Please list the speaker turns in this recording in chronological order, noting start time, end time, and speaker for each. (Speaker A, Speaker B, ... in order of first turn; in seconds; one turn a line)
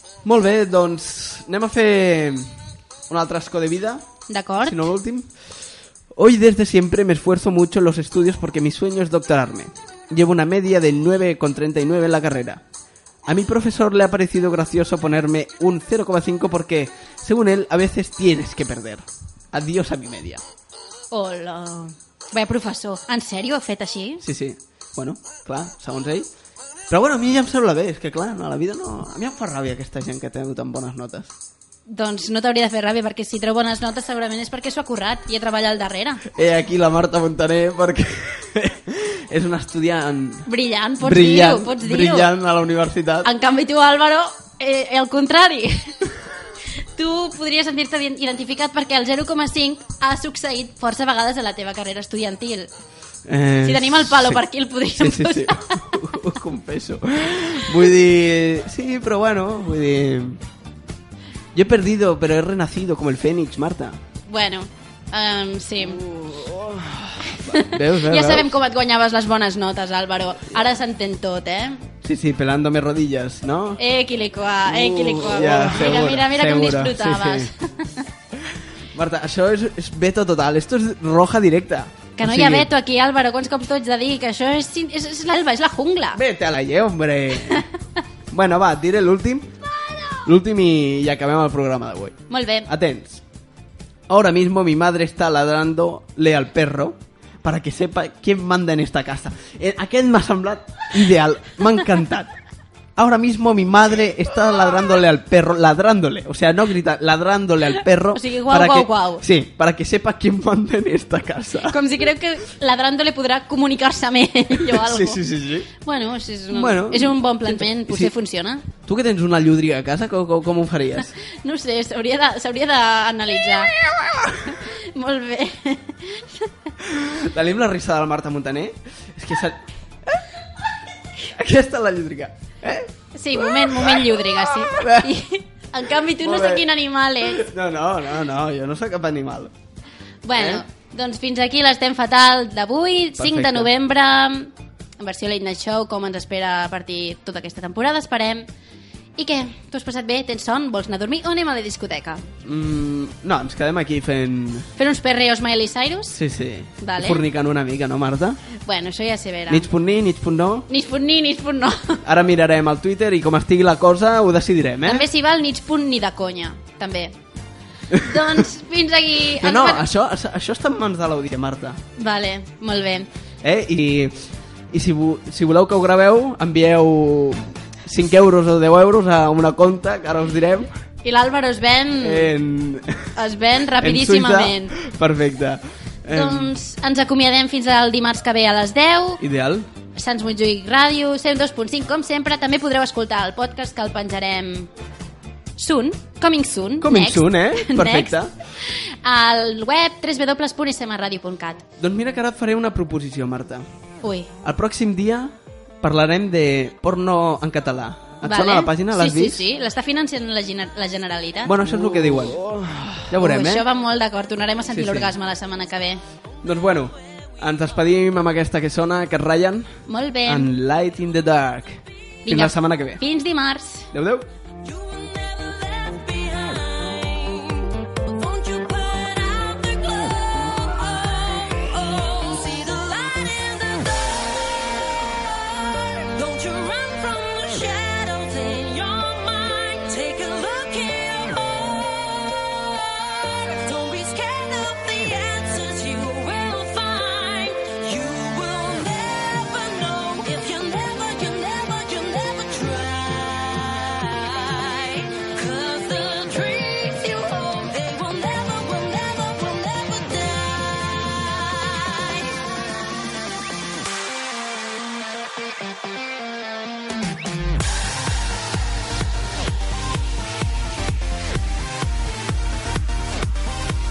Speaker A: 0.2-2.5
Speaker A: 3.1-4.0
Speaker B: 4.3-4.9
Speaker A: 4.6-5.3
Speaker A: 6.1-12.6
Speaker A: 13.3-20.4
Speaker B: 21.1-24.2
Speaker A: 24.2-26.3
Speaker A: 26.9-31.3
Speaker B: 31.9-36.2
Speaker A: 36.3-40.5
Speaker B: 40.5-42.3
Speaker A: 41.0-43.3
Speaker B: 43.2-45.9
Speaker B: 47.0-52.7
Speaker A: 53.3-54.4
Speaker B: 53.6-55.9
Speaker A: 55.0-60.4
Speaker A: 61.5-64.0
Speaker B: 64.3-66.0
Speaker A: 65.8-68.5
Speaker B: 67.5-71.8
Speaker A: 72.0-73.8
Speaker B: 73.8-77.9
Speaker A: 74.7-77.5
Speaker A: 78.3-82.7
Speaker B: 82.2-86.2
Speaker A: 86.1-87.6
Speaker A: 88.3-89.5
Speaker A: 90.2-93.2
Speaker B: 92.3-92.7
Speaker A: 94.1-102.3
Speaker A: 103.0-111.8
Speaker B: 108.1-109.2
Speaker B: 111.7-115.2
Speaker A: 114.6-115.7
Speaker B: 115.8-118.7
Speaker A: 116.5-118.1
Speaker A: 118.9-121.1
Speaker B: 121.3-123.7
Speaker A: 124.0-124.3
Speaker B: 124.5-126.5
Speaker A: 126.8-130.2
Speaker A: 131.2-135.1
Speaker B: 133.1-137.5
Speaker A: 136.2-136.7
Speaker A: 137.2-139.5
Speaker B: 140.2-148.5
Speaker A: 140.3-140.6
Speaker A: 143.2-143.7
Speaker B: 149.2-152.2
Speaker A: 152.4-154.7
Speaker B: 154.8-156.2
Speaker A: 156.1-158.4
Speaker B: 156.8-157.2
Speaker B: 158.6-159.7
Speaker A: 159.5-160.7
Speaker B: 160.7-162.0
Speaker A: 162.1-165.1
Speaker B: 164.9-167.1
Speaker A: 167.9-168.2
Speaker B: 167.9-169.9
Speaker A: 169.4-171.8
Speaker B: 172.0-173.1
Speaker A: 173.4-180.7
Speaker B: 181.0-182.3
Speaker A: 182.0-183.1
Speaker B: 183.2-184.7
Speaker A: 183.8-186.5
Speaker B: 186.1-189.2
Speaker A: 189.2-189.7
Speaker B: 189.9-194.7
Speaker B: 195.6-201.6
Speaker A: 196.8-198.3
Speaker A: 201.8-203.6
Speaker B: 204.0-204.3
Speaker A: 204.4-209.4
Speaker B: 208.2-211.5
Speaker A: 211.4-213.7
Speaker B: 213.1-216.0
Speaker A: 214.7-215.1
Speaker A: 216.4-223.0
Speaker B: 219.9-220.5
Speaker B: 222.3-223.9
Speaker A: 223.9-224.3
Speaker C: 224.6-234.7
Speaker C: 235.3-242.3
Speaker C: 243.2-262.4